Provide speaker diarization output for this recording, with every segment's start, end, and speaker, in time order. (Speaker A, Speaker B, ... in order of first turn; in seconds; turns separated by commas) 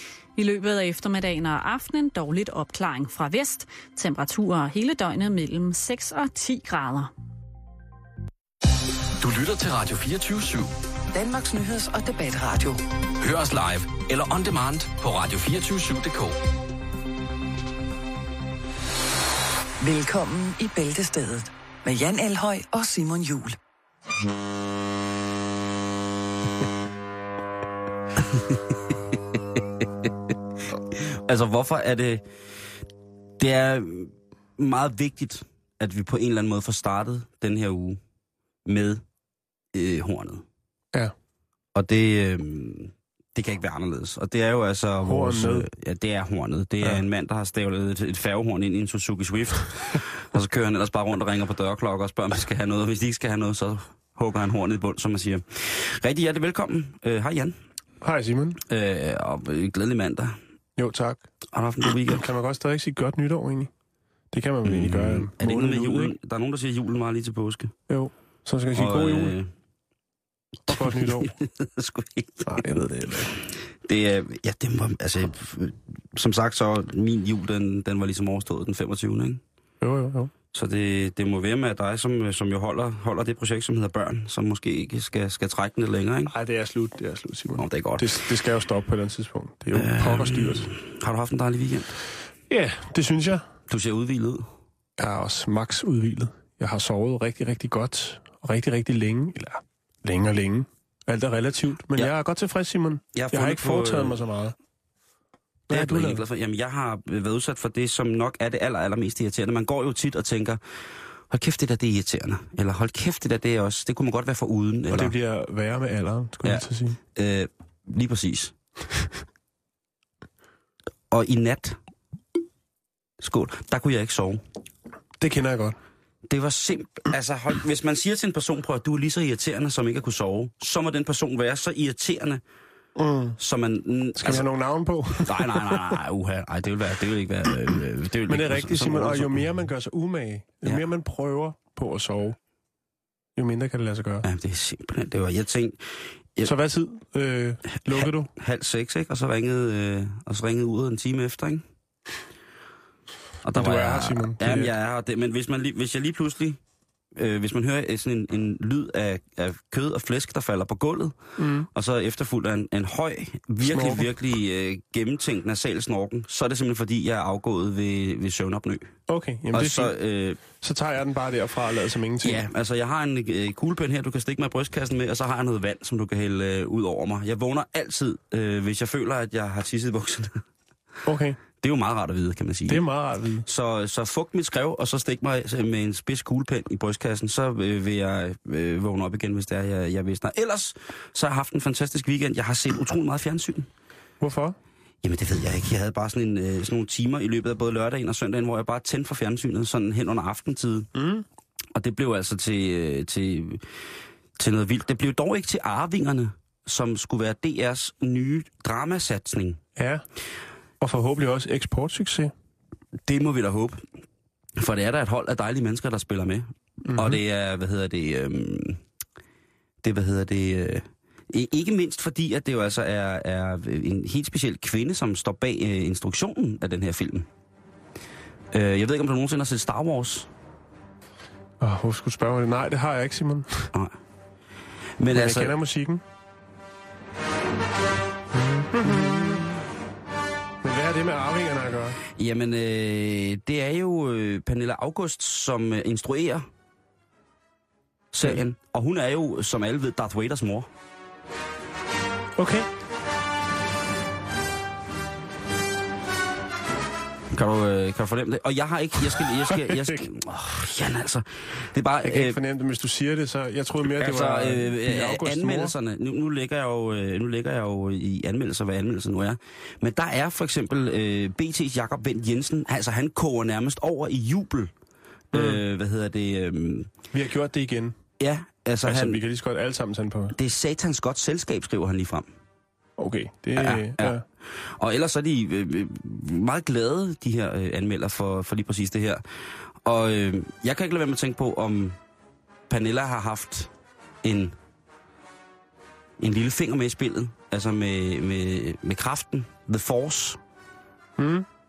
Speaker A: 0.3-7.1, Speaker B: 9.2-10.7, Speaker C: 11.1-12.8, Speaker B: 13.2-16.4, Speaker C: 19.8-23.6, Speaker D: 28.3-28.7, Speaker D: 29.3-30.1, Speaker D: 30.9-32.2, Speaker D: 33.4-38.0, Speaker D: 38.6-39.0, Speaker D: 39.7-40.4, Speaker D: 41.7-57.6, Speaker E: 45.0-45.7, Speaker E: 58.0-58.6, Speaker D: 58.7-60.4, Speaker E: 60.8-61.2, Speaker D: 61.5-62.2, Speaker E: 62.1-63.7, Speaker E: 64.3-66.1, Speaker D: 64.6-67.7, Speaker E: 67.9-69.4, Speaker D: 68.7-69.5, Speaker D: 70.7-72.9, Speaker E: 70.7-71.3, Speaker E: 72.5-73.3, Speaker D: 73.8-79.4, Speaker E: 79.8-80.3, Speaker D: 80.5-86.3, Speaker E: 86.2-90.7, Speaker D: 87.5-88.2, Speaker D: 89.7-91.9, Speaker E: 92.5-93.4, Speaker D: 93.7-94.5, Speaker E: 95.0-104.5, Speaker D: 103.1-104.2, Speaker E: 105.7-106.2, Speaker D: 105.7-110.6, Speaker D: 111.3-115.1, Speaker E: 114.9-117.0, Speaker D: 116.4-118.5, Speaker D: 121.1-121.8, Speaker D: 123.2-124.4, Speaker E: 125.2-125.8, Speaker D: 126.3-132.4, Speaker E: 132.9-133.4, Speaker D: 133.4-134.5, Speaker E: 134.2-136.0, Speaker D: 135.1-139.4, Speaker E: 138.3-142.4, Speaker E: 143.3-144.2, Speaker D: 144.2-145.8, Speaker E: 146.4-148.3, Speaker D: 147.9-151.6, Speaker D: 153.4-156.6, Speaker E: 153.5-154.7, Speaker D: 157.2-168.9, Speaker E: 161.4-161.7, Speaker E: 163.6-164.1, Speaker E: 169.1-172.4, Speaker D: 169.5-170.4, Speaker D: 172.2-180.4, Speaker E: 181.1-181.4, Speaker D: 181.6-182.9, Speaker E: 182.7-183.5, Speaker D: 183.4-193.7, Speaker E: 194.2-194.6, Speaker D: 195.0-200.9, Speaker E: 200.9-201.2, Speaker D: 201.7-203.6, Speaker D: 204.4-209.6, Speaker E: 209.8-210.0, Speaker E: 210.8-212.3, Speaker D: 213.1-213.8, Speaker D: 214.6-218.8, Speaker E: 216.9-217.2, Speaker D: 219.8-227.3, Speaker D: 228.5-230.3, Speaker E: 231.6-233.7, Speaker D: 235.0-235.6, Speaker E: 235.1-236.0, Speaker E: 238.3-239.4, Speaker E: 240.6-242.0, Speaker D: 242.2-246.4, Speaker D: 248.1-250.7, Speaker E: 252.4-252.7, Speaker D: 257.3-262.4, Speaker E: 262.0-265.7, Speaker D: 263.9-274.7, Speaker D: 275.3-276.9, Speaker E: 275.3-275.6, Speaker E: 277.1-278.0, Speaker D: 278.2-279.2, Speaker E: 278.8-280.4, Speaker D: 280.3-282.3, Speaker E: 283.0-284.2, Speaker D: 283.6-289.2, Speaker D: 289.8-292.0, Speaker D: 292.7-293.7, Speaker D: 294.2-294.5, Speaker D: 296.2-300.4, Speaker E: 301.2-301.4